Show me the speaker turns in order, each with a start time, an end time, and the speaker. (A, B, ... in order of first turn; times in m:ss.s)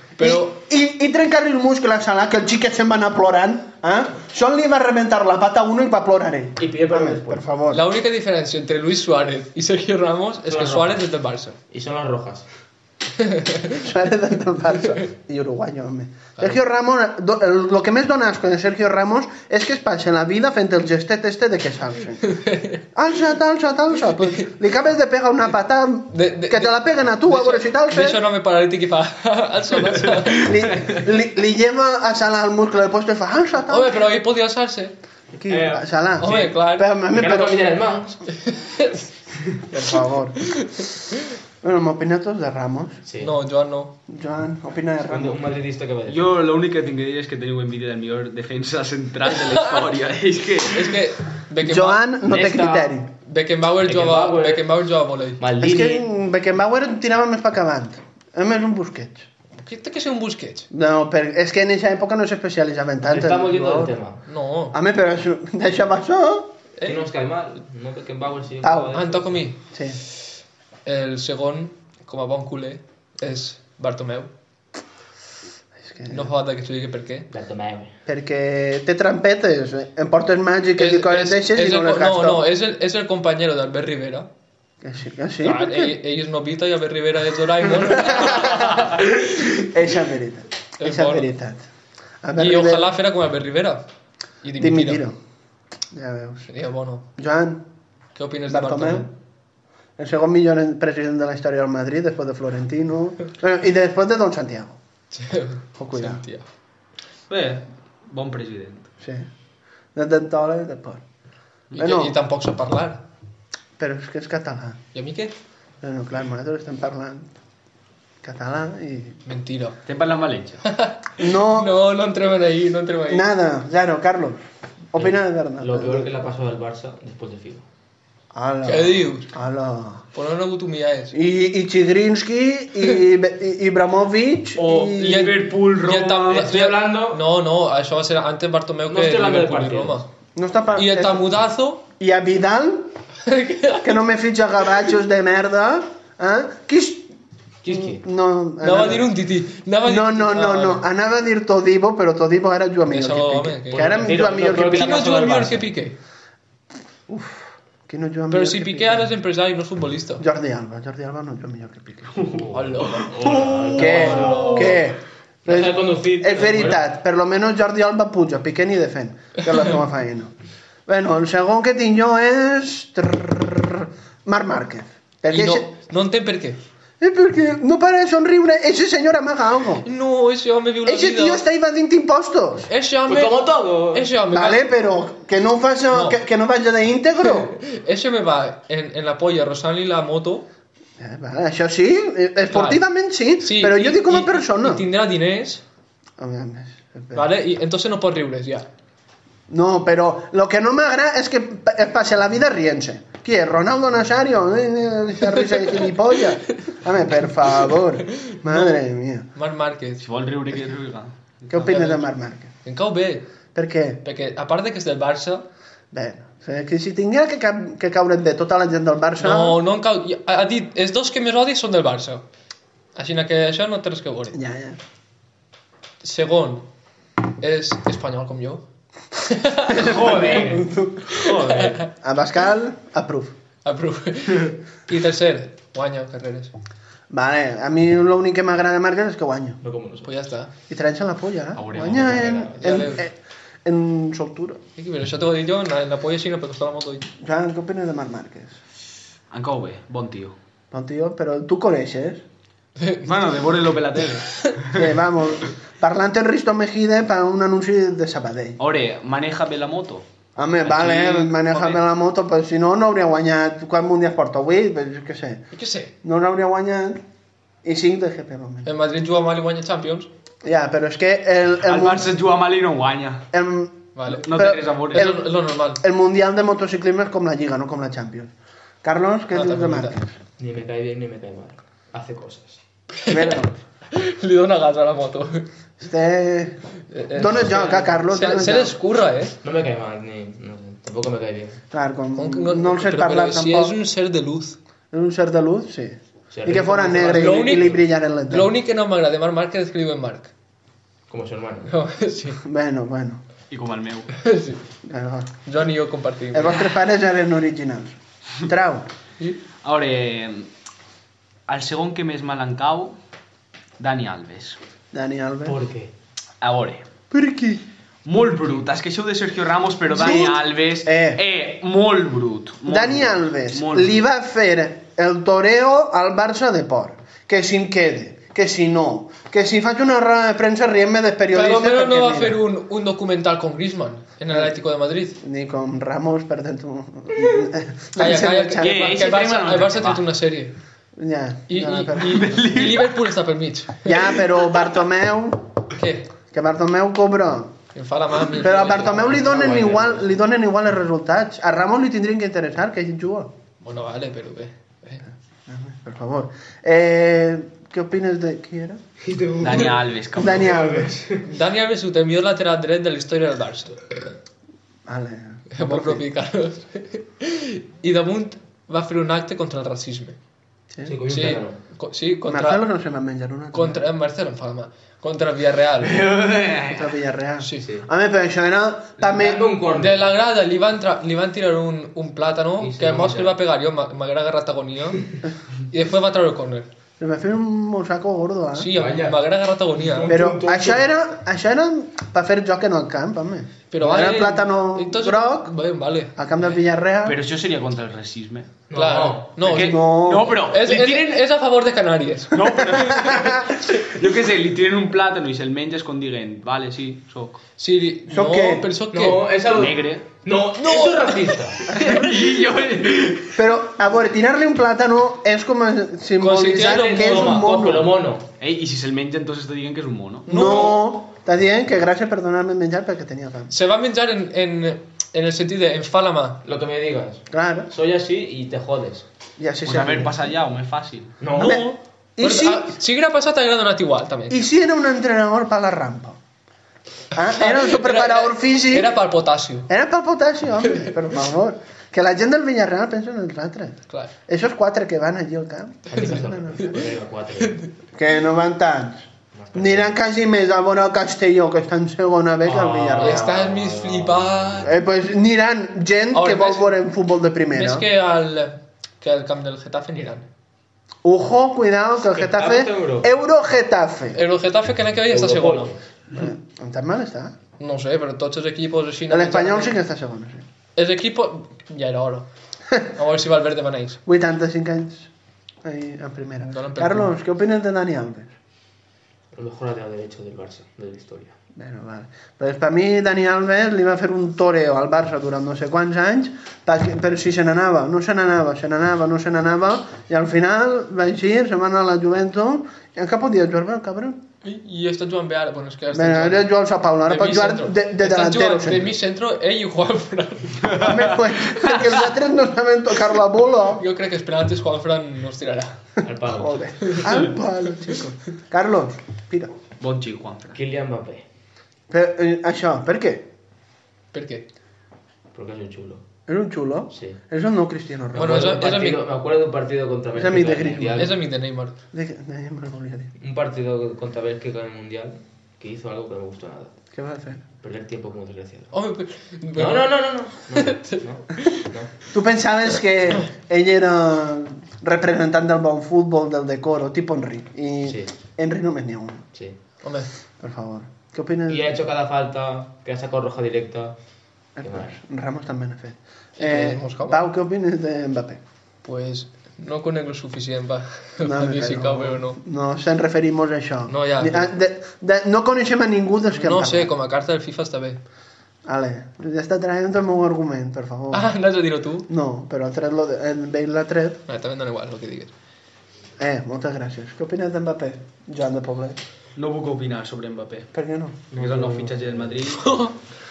0:00.2-0:00.6 A
0:00.2-0:07.8 B
0:06.6-0:07.4 C
0:07.7-0:11.6 A
0:10.5-0:11.0 C
0:11.7-0:12.5 C
0:13.2-0:13.8 A
0:13.8-0:22.4 B
0:22.2-0:22.8 A
0:22.9-0:28.2 B
0:24.2-0:24.5 A
0:26.1-0:30.5 A
0:30.3-0:34.0 B
0:33.7-0:34.9 A
0:35.3-0:37.6 B
0:35.6-0:36.5 C
0:36.2-0:36.9 A
0:37.1-0:38.2 C
0:38.5-0:39.0 A
0:39.7-0:40.5 B
0:40.6-0:40.9 A
0:41.6-0:43.0 B
0:43.1-0:43.3 C
0:43.2-0:44.0 A
0:44.1-0:45.4 B
0:45.1-0:46.3 C
0:46.1-0:51.0 D
0:49.4-0:49.8 A
0:50.7-0:52.1 A
0:51.6-0:53.1 B
0:52.2-0:52.9 C
0:53.2-0:55.4 A
0:53.8-0:54.7 C
0:55.4-0:56.1 C
0:55.6-0:59.3 B
0:59.6-1:00.7 A
1:00.7-1:04.0 B
1:03.0-1:04.2 C
1:04.3-1:04.8 A
1:04.7-1:06.5 B
1:06.8-1:09.3 C
1:08.6-1:09.0 B
1:08.9-1:09.6 A
1:09.7-1:10.0 B
1:10.9-1:14.3 A
1:15.8-1:16.3 B
1:16.1-1:17.3 A
1:17.3-1:17.9 C
1:18.1-1:22.5 B
1:20.8-1:24.3 A
1:24.8-1:26.0 B
1:25.4-1:29.4 A
1:27.8-1:31.6 B
1:30.8-1:31.4 A
1:32.2-1:32.9 B
1:32.4-1:33.9 A
1:34.4-1:35.0 A
1:34.6-1:35.2 B
1:35.9-1:36.5 B
1:36.5-1:37.1 A
1:37.2-1:37.6 B
1:38.2-1:39.1 A
1:38.5-1:39.1 B
1:40.0-1:44.8 B
1:45.1-1:46.5 A
1:45.8-1:46.2 B
1:47.3-1:48.9 D
1:49.0-1:49.3 B
1:50.0-1:51.0 B
1:51.7-1:53.0 A
1:51.8-1:52.2 B
1:53.8-1:54.8 B
1:54.9-1:55.3 A
1:55.8-1:57.3 B
1:58.2-1:59.2 B
1:59.3-1:59.8 A
1:59.9-2:00.6 D
2:00.6-2:03.3 A
2:01.2-2:01.7 B
2:03.1-2:04.4 B
2:04.9-2:06.1 B
2:05.0-2:07.6 C
2:08.3-2:10.1 B
2:08.7-2:09.3 A
2:10.1-2:11.2 A
2:11.1-2:15.4 B
2:14.6-2:16.4 D
2:15.1-2:20.1 A
2:16.3-2:17.2 C
2:18.9-2:20.0 C
2:20.4-2:21.3 B
2:20.8-2:21.8 A
2:22.0-2:22.9 B
2:23.2-2:24.0 A
2:23.8-2:27.1 B
2:27.6-2:28.0 C
2:27.7-2:29.1 B
2:28.6-2:30.8 A
2:29.8-2:35.4 B
2:32.9-2:36.0 A
2:33.7-2:35.6 C
2:37.1-2:39.1 B
2:38.3-2:40.2 A
2:40.2-2:42.3 B
2:42.3-2:44.8 C
2:42.5-2:44.8 A
2:43.2-2:44.4 D
2:43.7-2:50.3 B
2:45.5-2:46.8 C
2:50.9-2:55.7 B
2:55.3-2:56.6 A
2:57.0-2:59.8 B
2:59.8-3:01.4 A
3:00.8-3:02.7 B
3:02.7-3:04.6 A
3:03.1-3:04.1 C
3:04.3-3:07.5 B
3:05.9-3:06.2 A
3:07.3-3:10.5 A
3:11.0-3:14.8 B
3:12.5-3:12.8 A
3:13.4-3:15.6 A
3:16.2-3:17.3 B
3:17.1-3:18.7 A
3:19.5-3:29.3 B
3:28.2-3:28.8 A
3:29.4-3:30.0 A
3:30.0-3:31.4 D
3:31.5-3:32.5 B
3:31.6-3:32.1 A
3:32.6-3:33.3 A
3:33.6-3:34.0 B
3:34.0-3:35.5 A
3:35.9-3:39.6 B
3:39.2-3:42.2 A
3:43.0-3:44.4 A
3:44.3-3:44.8 B
3:46.0-3:46.7 A
3:47.4-3:48.6 A
3:49.2-3:50.2 A
3:49.7-3:51.1 B
3:49.8-3:51.8 D
3:51.1-3:51.9 A
3:52.0-3:53.4 B
3:53.6-3:56.5 A
3:57.1-3:59.6 B
3:59.6-4:00.1 C
4:00.0-4:00.5 A
4:00.7-4:04.6 B
4:01.6-4:02.4 D
4:01.8-4:02.8 C
4:02.6-4:03.0 A
4:04.8-4:07.1 A
4:07.2-4:08.6 B
4:09.3-4:10.4 D
4:10.7-4:12.2 B
4:12.8-4:13.1 A
4:13.0-4:14.9 D
4:14.7-4:18.6 B
4:18.6-4:20.0 D
4:20.4-4:25.4 B
4:20.6-4:21.8 D
4:25.5-4:25.9 A
4:26.0-4:27.0 B
4:27.6-4:28.7 B
4:28.6-4:30.1 A
4:30.4-4:32.1 B
4:31.6-4:33.2 D
4:33.3-4:38.3 B
4:34.0-4:35.8 A
4:34.2-4:35.1 D
4:38.8-4:40.2 B
4:39.3-4:40.0 A
4:40.4-4:42.6 C
4:43.0-4:45.5 A
4:43.1-4:43.6 B
4:45.8-4:46.6 B
4:46.9-4:49.4 A
4:47.1-4:48.8 B
4:49.4-4:51.6 C
4:51.7-4:53.8 B
4:52.2-4:54.6 A
4:54.9-4:58.5 B
4:56.3-4:57.7 C
4:57.0-5:00.3 A
5:01.1-5:01.7 C
5:01.7-5:02.4 A
5:02.4-5:03.2 B
5:03.5-5:04.1 D
5:04.2-5:04.6 A
5:04.8-5:05.3 B
5:05.4-5:06.7 A
5:06.3-5:08.9 B
5:09.6-5:10.5 D
5:11.5-5:13.0 D
5:13.8-5:14.6 D
5:14.9-5:15.6 B
5:15.4-5:15.9 C
5:16.4-5:16.8 D
5:17.1-5:17.6 B
5:18.0-5:24.0 D
5:19.9-5:21.2 B
5:22.7-5:32.4 B
5:31.3-5:35.2 A
5:35.2-5:39.0 B
5:38.0-5:40.6 A
5:38.6-5:40.0 D
5:41.0-5:42.4 B
5:41.5-5:44.1 A
5:42.0-5:43.0 D
5:43.8-5:45.6 B
5:45.8-5:46.1 A
5:46.2-5:47.6 B
5:47.8-5:49.1 A
5:48.3-5:53.3 B
5:48.4-5:50.1 C
5:53.6-5:55.0 A
5:55.1-5:58.8 B
5:59.0-6:01.2 C
5:59.4-6:00.6 D
6:00.2-6:01.1 B
6:01.2-6:04.0 A
6:04.9-6:06.0 B
6:05.5-6:10.2 A
6:10.7-6:11.0 B
6:10.8-6:11.6 C
6:11.1-6:12.6 A
6:12.3-6:13.8 B
6:13.5-6:16.1 A
6:15.8-6:17.0 D
6:16.7-6:19.5 B
6:17.6-6:17.9 C
6:19.0-6:20.0 C
6:19.8-6:25.1 A
6:22.6-6:23.4 C
6:25.7-6:26.7 A
6:27.0-6:28.7 B
6:28.6-6:30.1 A
6:28.7-6:29.2 C
6:29.8-6:30.8 C
6:30.1-6:35.5 B
6:33.7-6:36.2 A
6:36.2-6:37.2 B
6:37.0-6:38.5 D
6:38.7-6:39.3 C
6:38.7-6:43.1 A
6:39.4-6:41.2 D
6:39.4-6:40.4 B
6:42.3-6:47.4 D
6:42.7-6:43.4 B
6:47.6-6:49.2 A
6:48.1-6:48.7 B
6:48.9-6:51.7 C
6:49.5-6:50.1 D
6:50.6-6:51.8 A
6:51.7-6:53.4 D
6:53.3-6:57.9 B
6:56.2-6:57.5 A
6:56.6-6:58.3 C
6:58.4-7:00.6 D
7:00.3-7:03.5 B
7:00.3-7:00.6 A
7:03.5-7:06.4 A
7:06.4-7:09.1 C
7:07.3-7:07.7 B
7:09.4-7:10.2 B
7:09.6-7:11.2 D
7:11.2-7:11.6 C
7:11.4-7:14.4 A
7:11.4-7:12.8 B
7:14.3-7:16.2 B
7:17.1-7:18.9 B
7:17.4-7:19.7 A
7:19.7-7:26.8 B
7:25.9-7:27.6 C
7:25.9-7:26.7 A
7:27.4-7:27.7 A
7:28.0-7:33.4 B
7:29.4-7:29.9 C
7:32.4-7:34.7 C
7:33.0-7:34.7 A
7:34.6-7:37.9 B
7:36.1-7:36.8 A
7:37.6-7:40.3 A
7:41.0-7:44.2 B
7:42.1-7:43.1 C
7:44.1-7:45.7 A
7:45.1-7:45.8 C
7:46.1-7:47.4 B
7:47.6-7:49.8 A
7:49.1-7:50.4 B
7:50.8-7:52.3 A
7:52.8-7:54.0 A
7:54.0-7:55.1 B
7:55.6-7:58.3 B
7:56.5-7:57.2 A
7:59.3-8:01.4 C
8:01.6-8:14.2 B
8:14.4-8:16.5 A
8:15.9-8:18.9 B
8:17.0-8:20.7 A
8:20.7-8:21.0 D
8:20.8-8:23.8 B
8:23.8-8:25.8 A
8:26.0-8:27.0 C
8:26.4-8:29.5 B
8:26.9-8:27.1 A
8:29.8-8:30.6 D
8:30.5-8:31.2 C
8:31.9-8:33.3 B
8:34.1-8:34.5 A
8:35.3-8:36.0 C
8:36.3-8:38.7 B
8:36.9-8:37.2 C
8:38.1-8:41.2 C
8:38.2-8:39.0 A
8:40.1-8:41.2 B
8:41.0-8:41.8 A
8:41.9-8:43.1 B
8:43.2-8:46.7 C
8:46.9-8:47.4 B
8:47.6-8:48.7 C
8:48.7-8:50.0 A
8:49.6-8:52.0 C
8:50.6-8:50.9 A
8:52.1-8:59.3 B
8:57.9-8:58.1 C
8:59.8-9:00.1 A
9:00.4-9:01.8 B
9:01.5-9:04.0 C
9:04.6-9:08.4 B
9:04.6-9:04.9 C
9:06.4-9:07.2 A
9:08.8-9:12.4 A
9:11.2-9:16.9 B
9:13.9-9:14.5 A
9:16.3-9:18.0 A
9:18.7-9:21.3 B
9:21.1-9:22.1 A
9:22.1-9:24.2 B
9:24.3-9:25.3 A
9:26.2-9:29.0 B
9:29.4-9:30.7 D
9:30.7-9:31.2 B
9:31.3-9:32.4 C
9:31.3-9:32.7 D
9:32.6-9:33.0 A